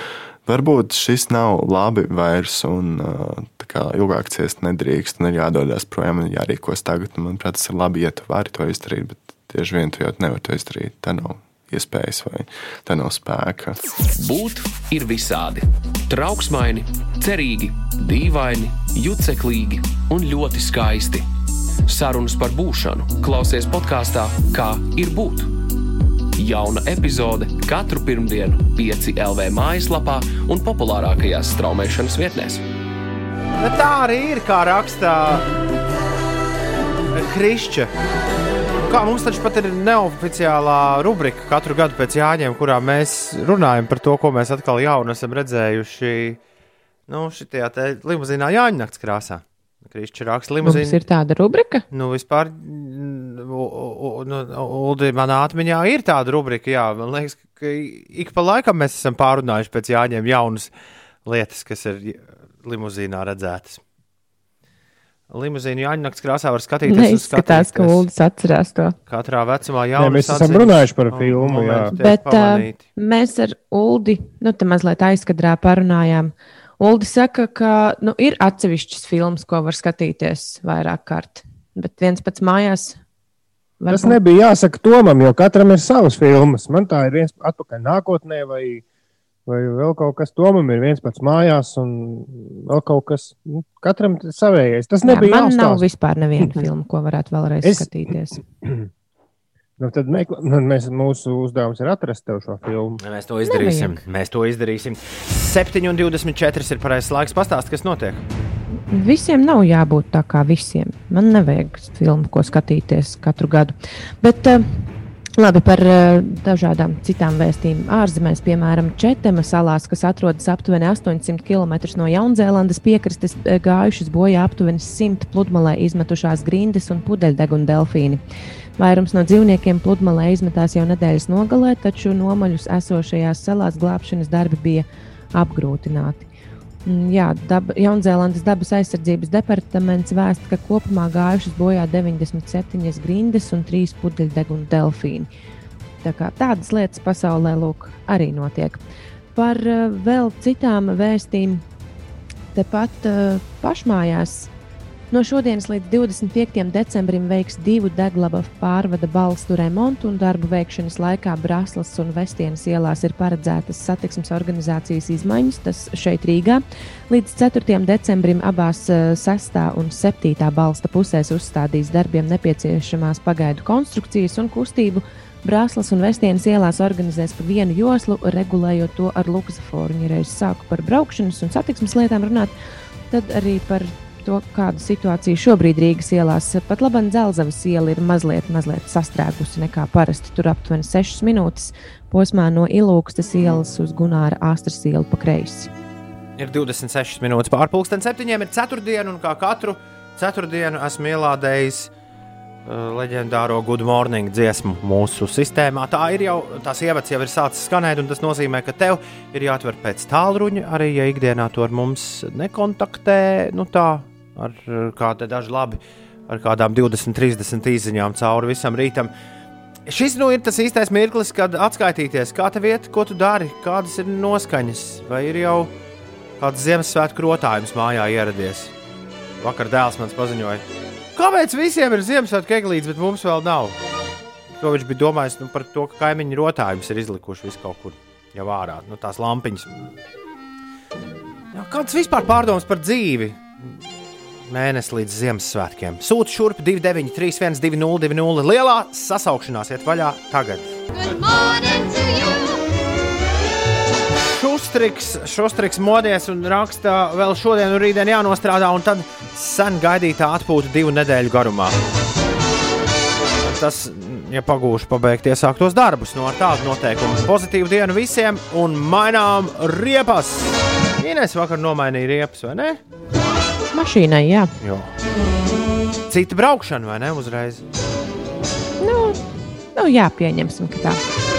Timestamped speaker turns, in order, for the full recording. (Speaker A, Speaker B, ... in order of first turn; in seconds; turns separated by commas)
Speaker A: 0.4-13.8, Speaker B: 14.1-21.3, Speaker B: 21.9-25.5, Speaker B: 26.4-32.6, Speaker C: 33.6-35.5, Speaker C: 37.1-37.9, Speaker C: 38.8-46.4, Speaker C: 47.1-51.0, Speaker D: 50.6-51.8, Speaker C: 51.9-60.7, Speaker C: 61.2-63.8, Speaker C: 65.3-68.0, Speaker D: 66.8-69.0, Speaker C: 69.1-72.8, Speaker E: 70.0-71.9, Speaker D: 71.9-83.0, Speaker D: 83.8-84.2, Speaker E: 83.9-88.8, Speaker E: 89.5-95.8, Speaker D: 95.0-98.4, Speaker E: 96.4-96.7, Speaker E: 97.6-98.9, Speaker E: 99.8-103.0, Speaker C: 103.0-108.2, Speaker D: 103.4-104.0, Speaker D: 108.9-114.8, Speaker D: 115.4-128.2, Speaker D: 128.8-136.3, Speaker D: 136.8-145.3, Speaker D: 146.0-148.8, Speaker D: 149.3-151.6, Speaker D: 152.5-154.5, Speaker D: 155.1-182.5, Speaker D: 183.1-195.7, Speaker C: 196.4-201.9, Speaker C: 202.6-219.1, Speaker C: 219.9-225.7, Speaker C: 226.4-228.7, Speaker C: 229.4-230.6, Speaker C: 231.1-233.8, Speaker C: 234.6-239.8, Speaker C: 241.5-243.7, Speaker C: 244.5-250.8, Speaker C: 254.3-261.8, Speaker C: 263.4-272.8, Speaker D: 273.7-274.5, Speaker C: 274.6-274.9, Speaker C: 276.1-277.6, Speaker D: 278.8-281.0